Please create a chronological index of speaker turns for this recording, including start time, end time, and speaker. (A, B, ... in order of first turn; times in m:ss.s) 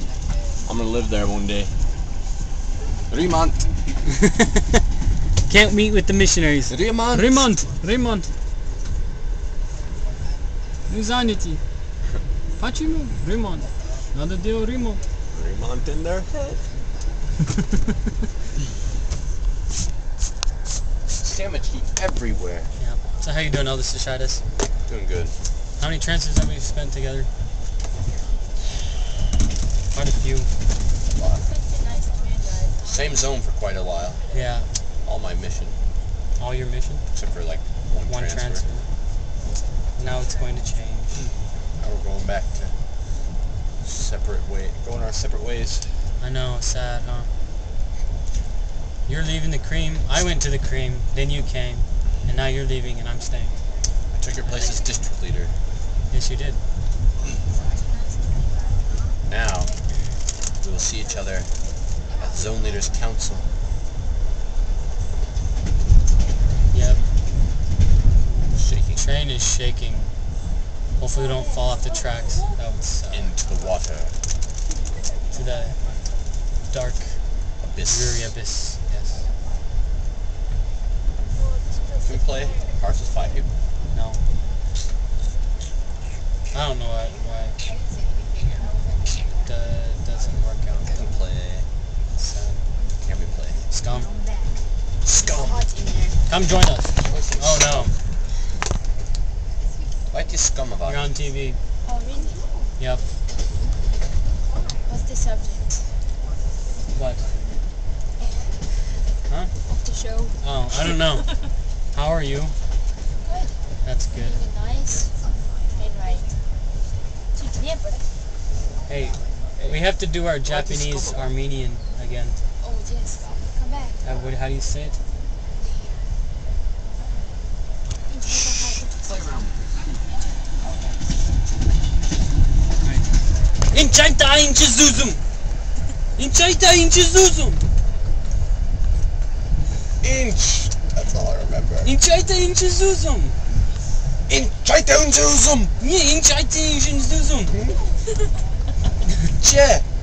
0:00.6-0:01.7 A
0:03.1-0:03.6 A
0:05.5-0:08.3 B
0:06.7-0:07.6 A
0:10.9-0:11.6 B
0:12.6-0:15.0 B
0:15.3-0:16.6 A
0:21.2-0:22.7 A
0:22.8-0:24.4 B
0:24.9-0:25.4 A
0:25.8-0:27.3 B
0:29.9-0:30.5 B
0:31.1-0:31.5 A
0:31.4-0:32.9 C
0:32.8-0:34.2 A
0:34.3-0:34.7 B
0:35.0-0:35.8 A
0:36.4-0:37.0 B
0:37.1-0:38.6 A
0:38.1-0:38.9 B
0:40.0-0:41.2 B
0:41.8-0:42.8 A
0:43.8-0:46.1 A
0:46.2-0:47.3 B
0:49.1-0:53.5 B
0:54.1-0:55.5 A
0:56.1-0:56.6 B
0:59.3-0:59.7 A
1:00.6-1:01.5 A
1:02.3-1:03.5 A
1:06.7-1:07.0 B
1:08.5-1:09.0 A
1:09.0-1:10.1 B
1:11.0-1:13.3 B
1:11.1-1:11.8 C
1:13.1-1:14.2 A
1:15.3-1:15.8 B
1:16.7-1:17.2 B
1:17.6-1:18.3 A
1:17.8-1:19.2 B
1:22.0-1:23.5 A
1:23.9-1:24.2 B
1:26.5-1:27.6 B
1:29.4-1:31.0 B
1:30.9-1:31.7 A
1:32.2-1:32.6 B
1:33.0-1:33.6 A
1:33.7-1:34.1 B
1:35.0-1:35.6 A
1:35.2-1:36.2 C
1:36.3-1:37.9 B
1:37.0-1:37.9 A
1:40.1-1:41.1 A
1:40.8-1:41.6 B
1:41.8-1:42.4 C
1:44.9-1:45.9 C
1:46.9-1:47.2 B
1:48.2-1:48.6 C
1:49.7-1:50.4 C
1:50.4-1:51.3 B
1:51.9-1:52.6 B
1:53.2-1:53.6 C
1:53.8-1:54.4 B
1:54.2-1:55.1 C
1:55.7-1:56.3 C
1:57.3-1:58.1 C
1:58.9-2:02.4 B
2:00.5-2:01.3 A
2:02.6-2:04.0 C
2:04.0-2:05.0 B
2:08.1-2:09.1 C
2:09.0-2:09.5 A
2:13.7-2:15.2 B
2:16.2-2:17.6 B
2:20.0-2:21.9 A
2:21.8-2:23.4 B
2:24.3-2:25.7 A
2:25.8-2:27.6 B
2:27.5-2:27.8 A
2:29.4-2:29.9 A